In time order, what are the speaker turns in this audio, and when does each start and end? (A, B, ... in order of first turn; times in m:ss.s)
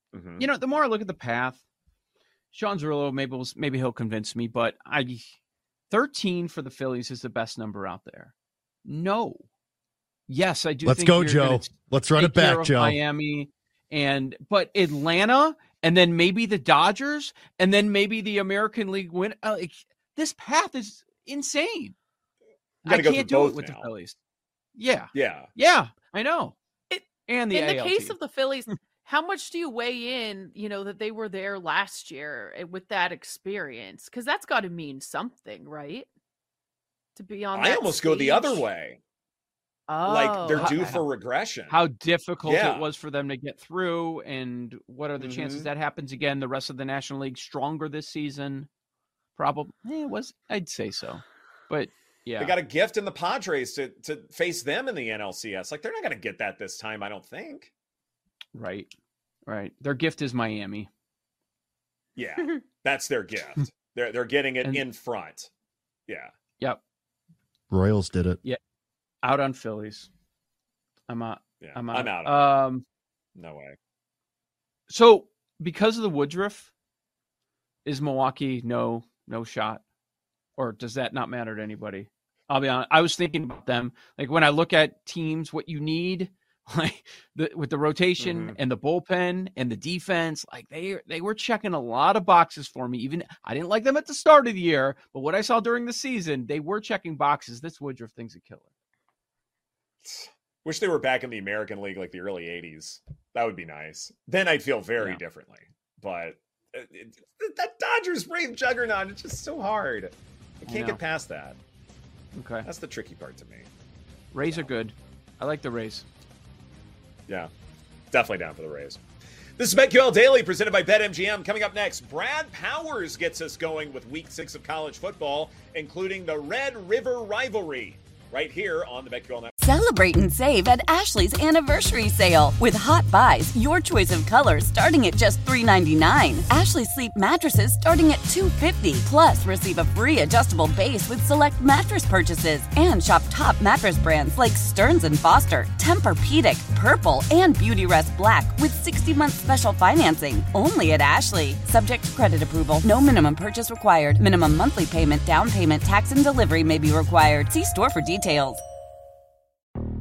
0:00.1-0:00.4 A
0:00.4-0:01.6 B
0:02.5-0:05.3 B
0:05.9-0:08.3 B
0:08.8-0:09.4 B
0:10.3-0:21.9 B
0:10.8-0:13.0 C
0:22.8-0:24.2 B
0:22.9-0:23.9 A
0:24.8-0:26.6 B
0:25.1-0:25.5 A
0:26.9-0:36.1 D
0:27.2-0:28.2 B
0:37.2-0:38.7 D
0:37.5-0:39.0 A
0:39.9-0:41.0 D
0:40.1-0:41.7 A
0:40.5-0:41.0 B
0:41.7-0:48.7 B
0:42.4-0:42.9 A
0:45.2-0:45.7 A
0:49.4-0:52.5 B
0:52.4-0:57.7 A
0:58.5-0:58.9 B
0:59.5-1:00.9 B
1:02.2-1:05.5 A
1:06.1-1:06.3 A
1:07.7-1:08.4 C
1:09.2-1:10.1 B
1:11.1-1:12.8 B
1:11.6-1:12.3 A
1:13.4-1:13.7 A
1:14.9-1:16.7 B
1:17.8-1:19.8 B
1:20.6-1:38.7 B
1:40.0-1:50.1 A
1:50.7-1:51.0 B
1:50.7-1:51.6 A
1:52.3-1:52.6 B
1:52.6-1:53.7 A
1:54.3-1:56.0 B
1:58.1-1:59.0 A
1:59.6-2:09.5 A
2:09.6-2:38.6 E